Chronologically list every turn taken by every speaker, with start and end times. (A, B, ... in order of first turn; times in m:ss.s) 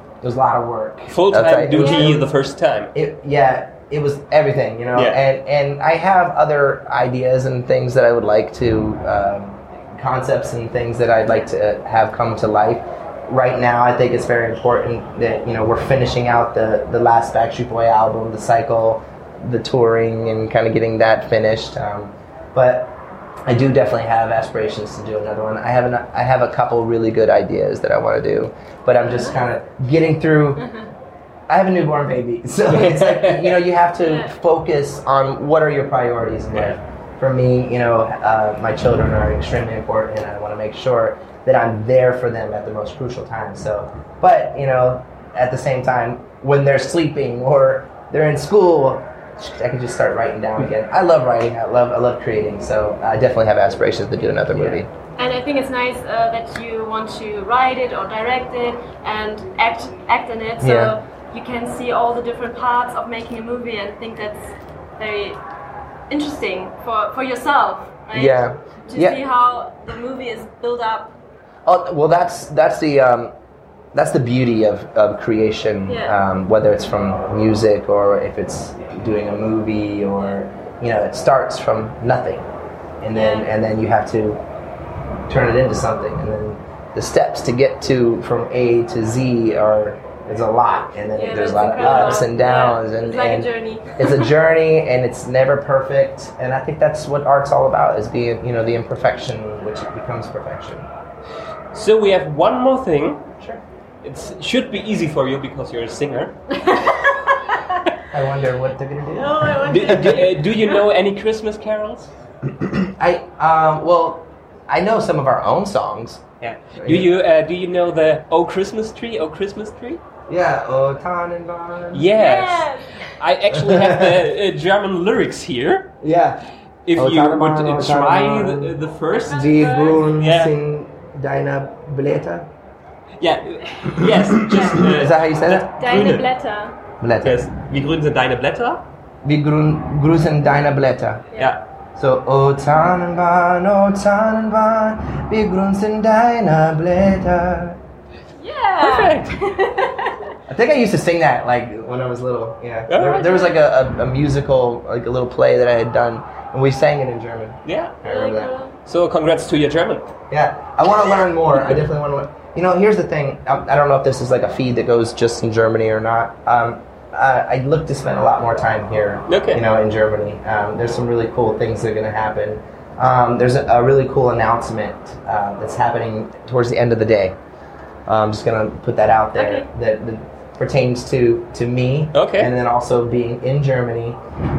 0:00.2-0:02.3 A
0:01.1-0:02.9 B
0:01.7-0:02.2 C
0:02.9-0:30.6 A
0:04.9-0:05.2 B
0:29.0-0:29.5 C
0:30.6-0:30.9 C
0:31.5-0:54.9 A
0:32.7-0:33.6 B
0:34.0-0:34.4 C
0:36.5-0:36.8 B
0:54.5-0:54.8 B
0:55.2-1:05.4 C
1:00.6-1:01.0 A
1:06.1-1:11.2 C
1:08.1-1:09.2 A
1:11.6-1:13.3 A
1:13.9-1:22.5 A
1:15.9-1:16.2 C
1:23.0-1:24.4 A
1:23.1-1:23.5 C
1:25.3-1:40.9 A
1:31.1-1:34.3 C
1:41.7-1:43.2 B
1:44.0-1:46.4 B
1:46.5-1:47.8 C
1:48.1-1:50.2 A
1:49.1-1:50.8 C
1:49.6-1:52.1 B
1:52.6-1:56.2 A
1:56.4-2:00.0 B
1:56.7-1:57.1 A
2:00.3-2:02.1 A
2:01.9-2:05.9 B
2:02.1-2:03.1 C
2:03.7-2:04.1 A
2:06.0-2:12.5 A
2:06.8-2:09.4 B
2:09.2-2:10.2 C
2:10.1-2:10.5 B
2:13.2-2:16.2 B
2:14.5-2:14.8 C
2:14.6-2:15.9 A
2:15.8-2:16.8 C
2:17.0-2:17.5 A
2:17.2-2:18.8 B
2:19.2-2:21.2 A
2:21.9-2:27.8 A
2:28.4-2:30.3 C
2:28.8-2:29.3 B
2:30.5-2:38.5 A
2:32.9-2:33.3 B
2:33.3-2:33.6 C
2:37.6-2:38.1 B
2:38.0-2:38.8 C
2:38.8-2:40.1 B
2:40.3-2:57.4 A
2:49.3-2:49.6 B
2:58.1-3:04.2 A
2:59.3-2:59.7 C
3:02.1-3:02.5 B